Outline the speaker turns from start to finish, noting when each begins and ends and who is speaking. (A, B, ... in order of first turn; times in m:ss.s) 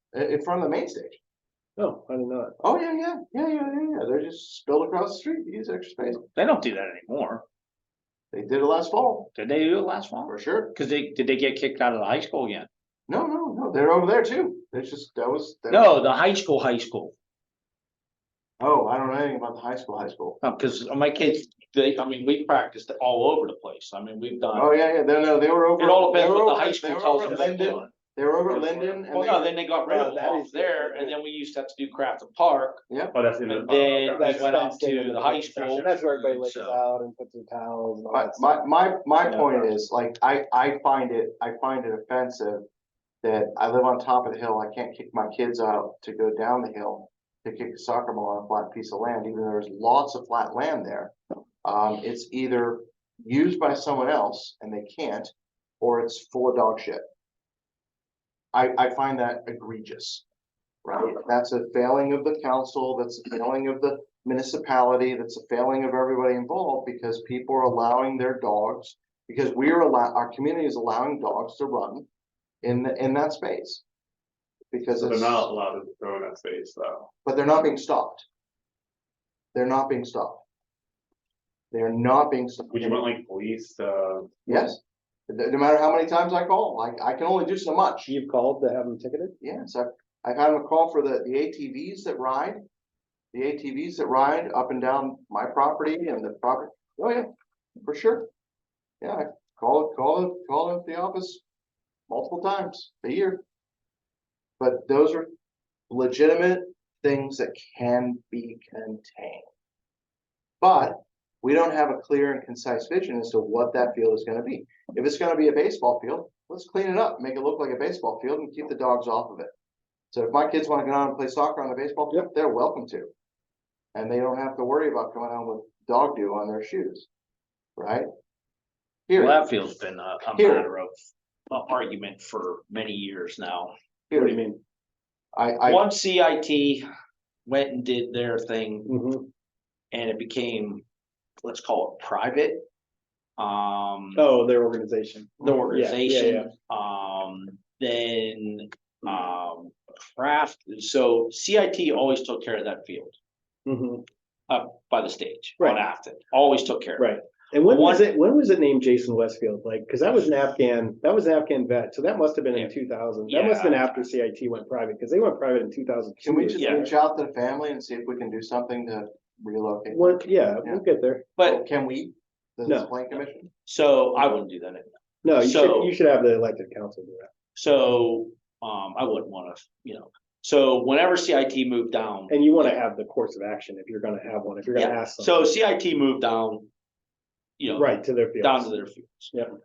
0:00.1-0:01.2 A
0:01.8-0:02.5 B
0:02.6-0:06.2 A
0:06.3-0:07.4 C
0:08.3-0:09.3 A
0:09.3-0:12.7 C
0:10.3-0:10.7 A
0:13.1-0:16.0 A
0:15.7-0:17.1 C
0:18.6-0:20.4 A
0:20.4-0:24.8 C
0:24.5-0:29.5 A
0:25.8-0:27.9 C
0:29.1-0:32.8 C
0:29.8-0:31.1 B
0:32.9-0:33.1 A
0:33.1-0:34.5 D
0:33.5-0:36.8 C
0:34.2-0:38.6 B
0:38.1-0:42.6 A
0:39.2-0:39.8 B
0:43.2-0:57.0 A
0:58.5-1:00.2 A
1:00.8-1:12.1 A
1:12.6-1:13.8 A
1:14.7-1:15.5 A
1:15.0-1:17.1 D
1:17.2-1:18.2 A
1:19.5-1:20.4 A
1:21.7-1:23.0 A
1:22.7-1:24.4 D
1:24.4-1:28.1 A
1:28.0-1:29.4 B
1:29.4-1:32.6 A
1:33.3-1:37.3 A
1:37.8-1:38.3 A
1:39.0-1:41.4 A
1:42.1-1:43.4 A
1:44.6-1:45.3 A
1:45.9-1:49.5 A
1:50.6-1:59.5 A
2:00.1-2:03.1 A
2:03.9-2:07.1 A
2:07.8-2:08.1 A
2:09.1-2:09.4 A
2:09.2-2:10.9 C
2:10.2-2:10.7 A
2:11.5-2:13.7 C
2:14.1-2:14.4 A
2:14.1-2:14.6 B
2:15.3-2:15.8 A
2:15.6-2:16.8 C
2:17.4-2:18.9 C
2:18.8-2:19.3 B
2:19.9-2:20.8 C
2:21.4-2:22.6 C
2:23.4-2:24.2 C
2:24.1-2:26.5 B
2:25.4-2:33.2 C
2:33.6-2:34.1 B
2:34.5-2:38.1 C
2:37.0-2:46.9 B
2:43.3-2:44.1 C
2:46.2-2:50.8 A
2:46.6-2:46.9 C
2:49.9-2:51.3 B
2:51.4-2:53.5 A
2:52.6-2:52.9 B
2:53.6-2:55.9 C
2:55.2-2:57.3 B
2:57.6-3:02.8 C
3:02.3-3:05.3 B
3:04.7-3:06.7 C
3:07.6-3:09.4 C
3:07.8-3:08.8 B